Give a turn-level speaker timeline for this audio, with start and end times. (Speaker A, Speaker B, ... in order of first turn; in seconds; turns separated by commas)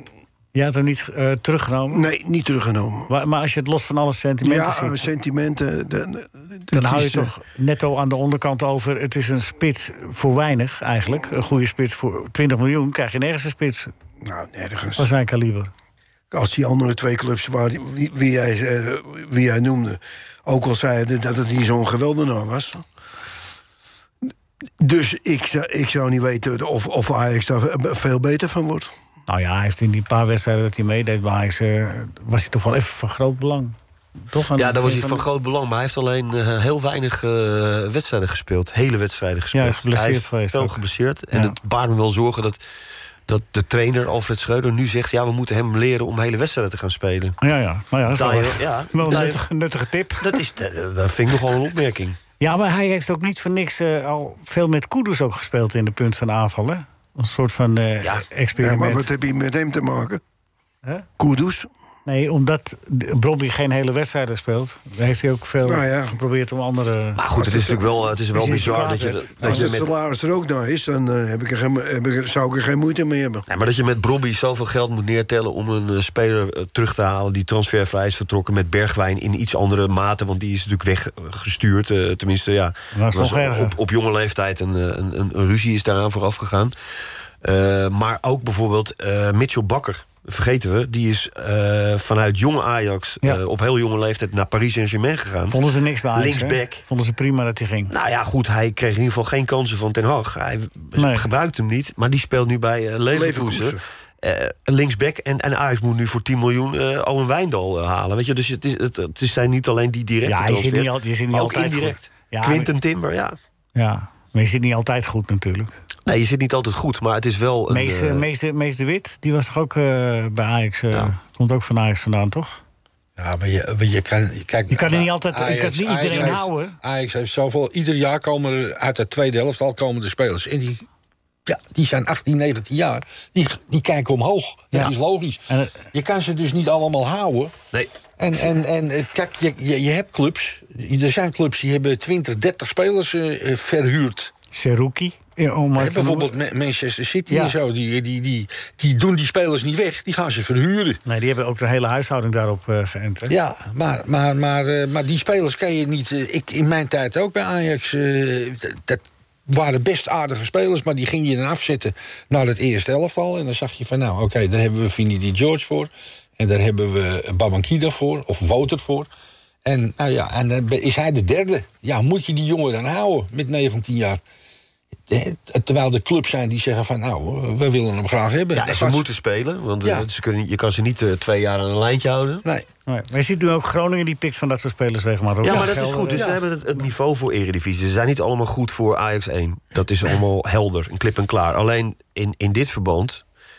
Speaker A: 0.5-2.0, Speaker B: 1.9-3.1, Speaker A: 3.1-5.1, Speaker B: 4.4-7.3, Speaker A: 6.7-13.9, Speaker B: 14.2-15.1, Speaker A: 15.0-15.7, Speaker B: 16.3-22.8, Speaker B: 24.8-28.9, Speaker A: 29.3-33.7, Speaker A: 34.3-35.2, Speaker C: 34.5-42.6, Speaker A: 39.5-41.6, Speaker C: 43.3-47.4, Speaker A: 47.4-50.4, Speaker C: 48.1-49.5, Speaker C: 50.1-52.2, Speaker A: 52.4-59.1, Speaker B: 58.6-60.2, Speaker B: 61.2-61.7, Speaker A: 62.0-67.2, Speaker B: 65.6-66.2, Speaker C: 67.2-69.9, Speaker B: 67.3-68.1, Speaker A: 68.3-69.7, Speaker B: 69.4-73.4, Speaker C: 73.5-86.7, Speaker A: 82.9-83.8, Speaker C: 87.4-95.6, Speaker A: 95.5-97.9, Speaker C: 96.1-96.8, Speaker C: 97.9-113.4, Speaker A: 101.0-101.2, Speaker B: 103.1-103.8, Speaker A: 110.2-112.7, Speaker A: 113.8-115.8, Speaker C: 116.0-118.3, Speaker A: 117.7-122.6, Speaker D: 123.2-130.8, Speaker A: 124.7-126.8, Speaker D: 131.4-135.4, Speaker A: 135.5-135.8, Speaker D: 135.9-137.5, Speaker D: 138.2-144.3, Speaker A: 144.5-146.3, Speaker D: 145.8-151.0, Speaker A: 147.3-147.6, Speaker A: 151.1-153.3, Speaker D: 153.3-169.1, Speaker D: 169.6-174.2, Speaker D: 175.1-179.1, Speaker C: 178.5-182.4, Speaker A: 182.9-186.3, Speaker C: 185.4-193.2